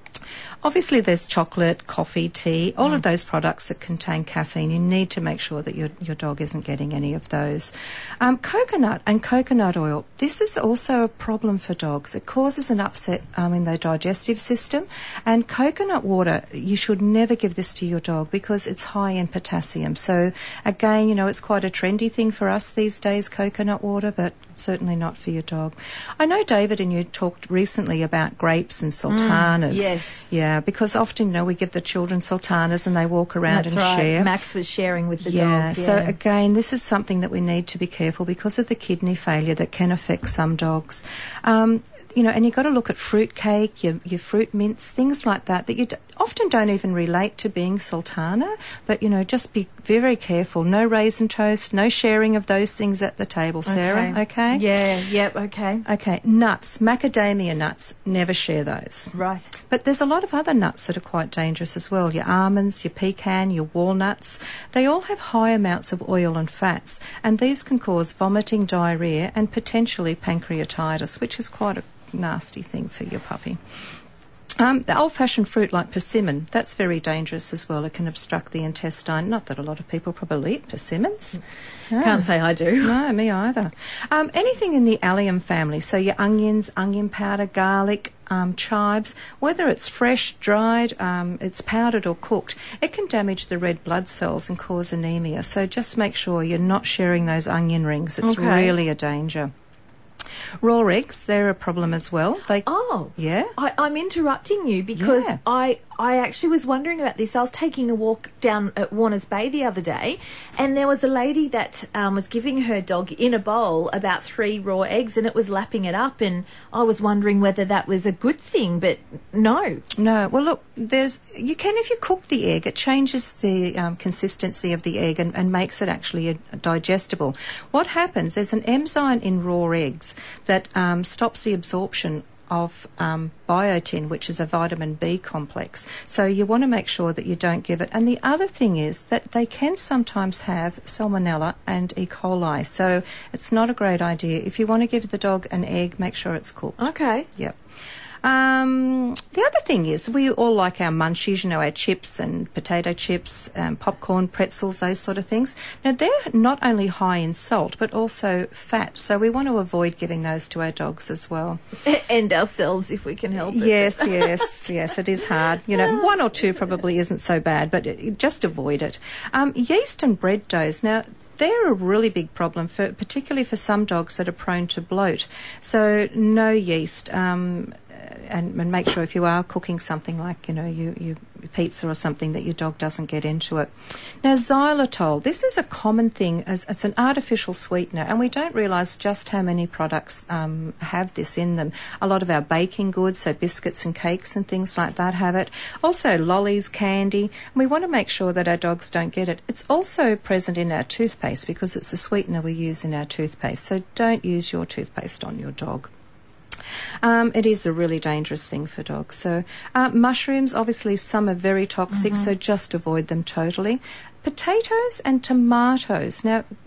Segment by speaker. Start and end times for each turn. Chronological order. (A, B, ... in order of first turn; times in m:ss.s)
0:00.6-0:34.3 A
0:29.1-0:30.3 B
0:33.5-0:36.2 B
0:35.2-0:54.6 A
0:53.7-0:55.8 B
0:55.8-0:59.1 A
0:59.1-0:59.5 B
0:59.7-1:13.6 A
1:14.6-1:39.5 A
1:22.0-1:23.0 B
1:38.2-1:38.7 B
1:40.6-1:43.5 A
1:42.7-1:59.8 B
1:45.0-1:45.4 A
2:00.0-2:27.6 A
2:26.8-2:27.3 B
2:28.2-2:41.6 A
2:41.8-2:44.5 B
2:43.4-3:25.9 A
2:45.7-2:46.0 B
3:27.0-3:36.5 A
3:31.9-3:32.3 B